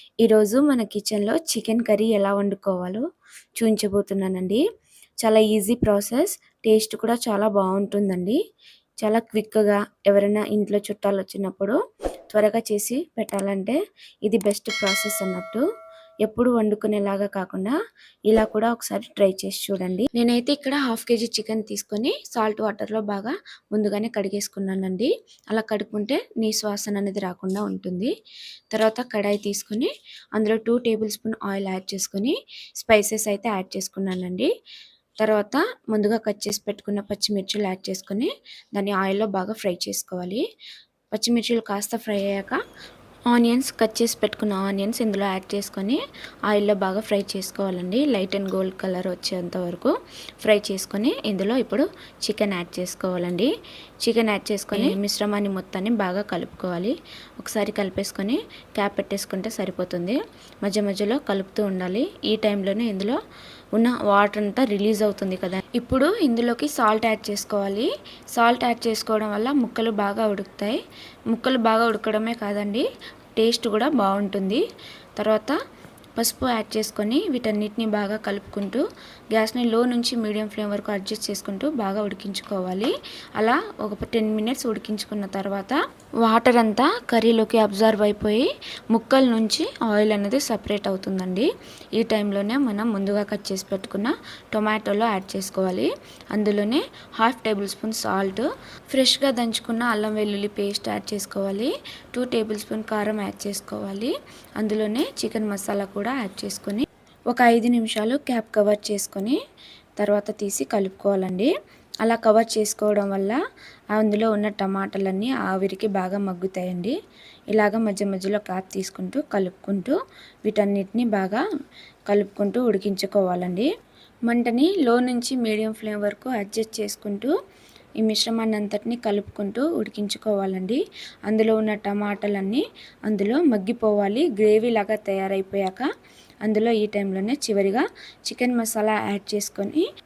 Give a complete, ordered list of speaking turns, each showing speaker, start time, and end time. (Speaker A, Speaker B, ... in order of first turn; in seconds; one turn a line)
Speaker A: 0.2-3.0
Speaker A: 3.6-4.6
Speaker A: 5.2-8.4
Speaker A: 9.0-11.8
Speaker A: 12.3-15.6
Speaker A: 16.3-17.8
Speaker A: 18.3-28.1
Speaker A: 28.7-34.5
Speaker A: 35.2-40.4
Speaker A: 41.1-42.6
Speaker A: 43.3-53.5
Speaker A: 54.0-63.2
Speaker A: 63.8-72.9
Speaker A: 73.4-74.6
Speaker A: 75.2-75.5
Speaker A: 76.2-109.4
Speaker A: 110.0-111.5
Speaker A: 112.0-113.4
Speaker A: 114.0-117.0
Speaker A: 117.5-121.4
Speaker A: 122.1-123.7
Speaker A: 124.3-127.3
Speaker A: 128.0-135.9
Speaker A: 136.4-139.9